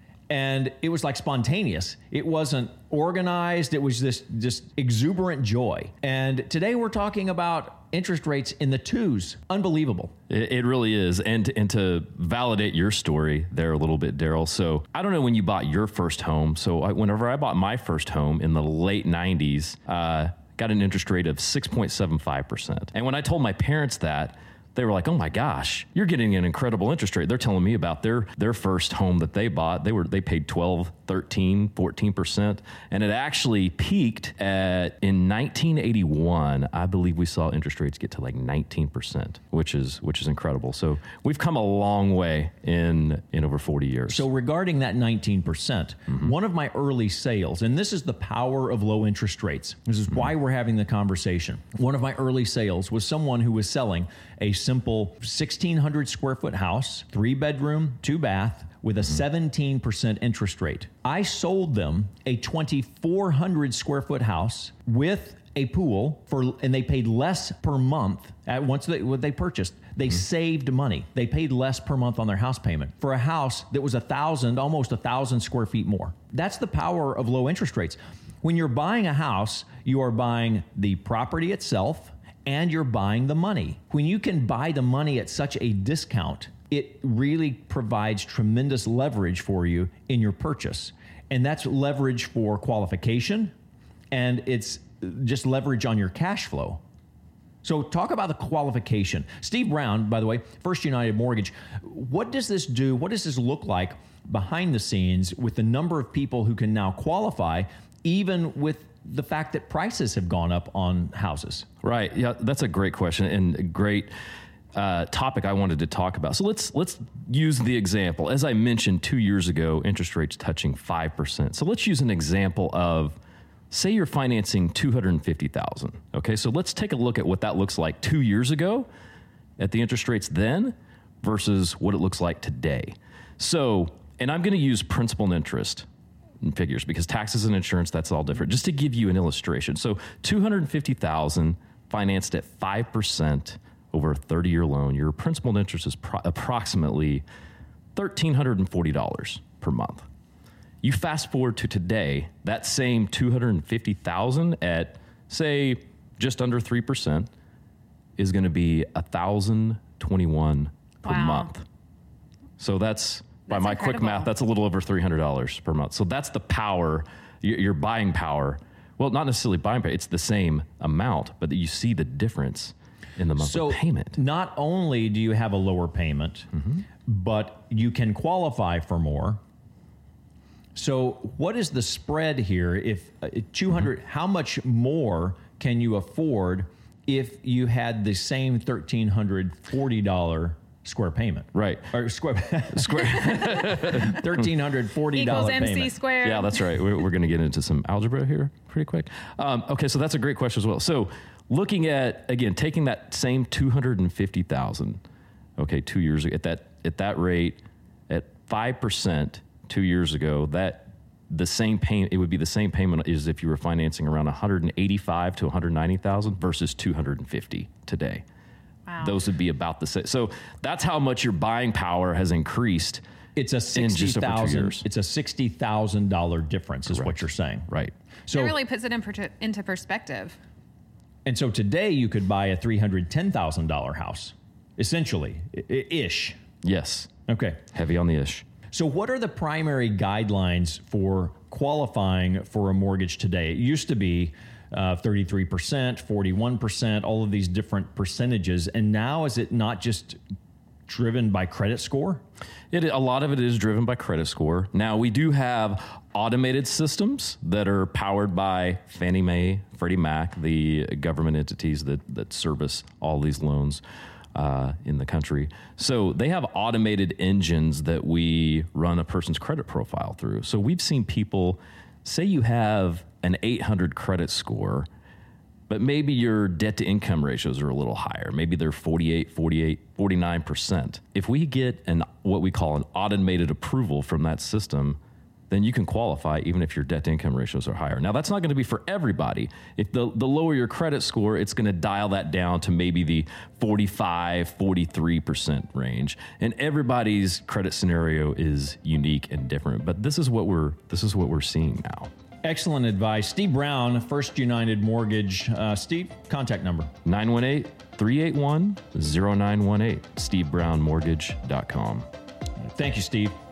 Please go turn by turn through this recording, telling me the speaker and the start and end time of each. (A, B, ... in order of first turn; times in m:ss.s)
0:00.3-0:10.1 A
0:10.3-0:44.2 B
0:44.1-1:33.5 A
1:34.1-1:36.8 A
1:37.6-1:51.6 A
1:51.8-1:54.1 B
1:54.7-2:03.2 B
2:03.7-2:08.9 B
2:09.6-2:15.9 B
2:16.4-2:27.2 B
2:28.0-2:30.0 B
2:30.8-2:37.3 B
2:38.2-2:41.6 B
2:41.0-2:41.5 C
2:42.6-2:54.2 B
2:43.5-2:44.3 C
2:53.4-2:56.5 A
2:57.0-2:59.4 A
3:00.7-3:16.0 A
3:11.5-3:11.9 B
3:12.7-3:14.2 B
3:15.1-3:16.7 C
3:16.2-3:25.0 B
3:25.6-3:38.2 B
3:38.9-3:39.2 C
3:39.0-3:43.0 B
3:43.4-3:47.7 A
3:43.7-3:44.8 B
3:46.9-3:47.9 B
3:48.2-3:48.6 A
3:48.3-3:50.4 C
3:51.2-3:56.4 A
3:56.6-3:57.1 B
3:57.3-3:57.6 A
3:57.7-3:58.4 B
3:58.7-4:10.2 A
4:10.9-4:12.2 A
4:12.7-4:23.8 B
4:24.3-4:34.9 B
4:35.7-4:45.0 B
4:45.5-5:02.1 B
5:02.4-5:06.9 A
5:07.0-5:12.1 B
5:12.7-5:13.4 A